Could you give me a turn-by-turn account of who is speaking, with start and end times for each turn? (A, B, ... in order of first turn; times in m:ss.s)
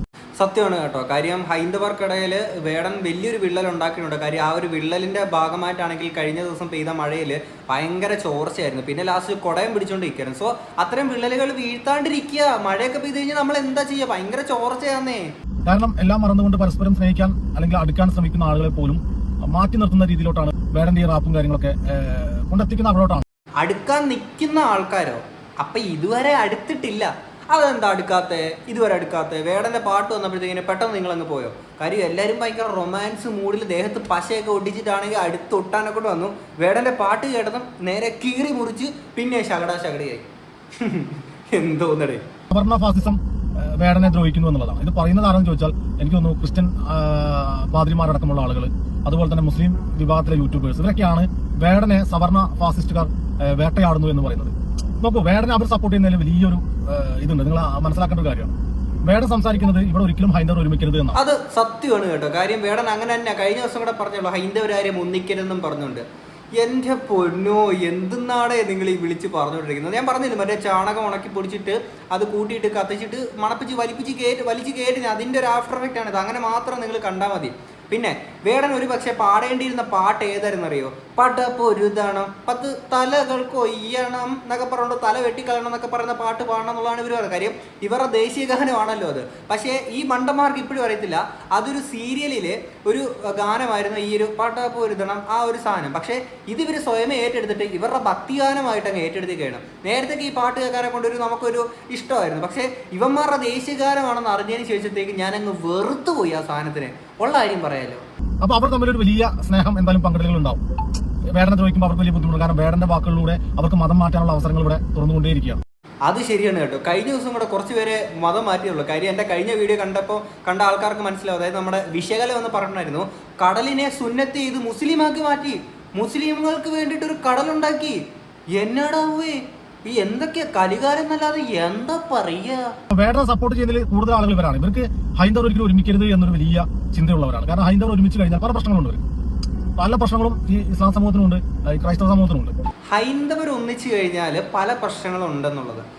0:00.4-0:15.2 A
0:15.6-0:23.2 B
0:23.6-0:40.2 A
0:40.8-0:42.2 A
0:42.5-0:58.5 B
0:59.0-1:01.2 B
1:01.1-1:06.0 A
1:06.6-1:48.0 A
1:48.4-1:50.6 B
1:51.3-1:55.6 B
1:56.0-2:08.0 A
2:08.5-2:12.7 A
2:12.9-2:19.0 B
2:19.8-2:22.6 B
2:22.9-2:25.8 A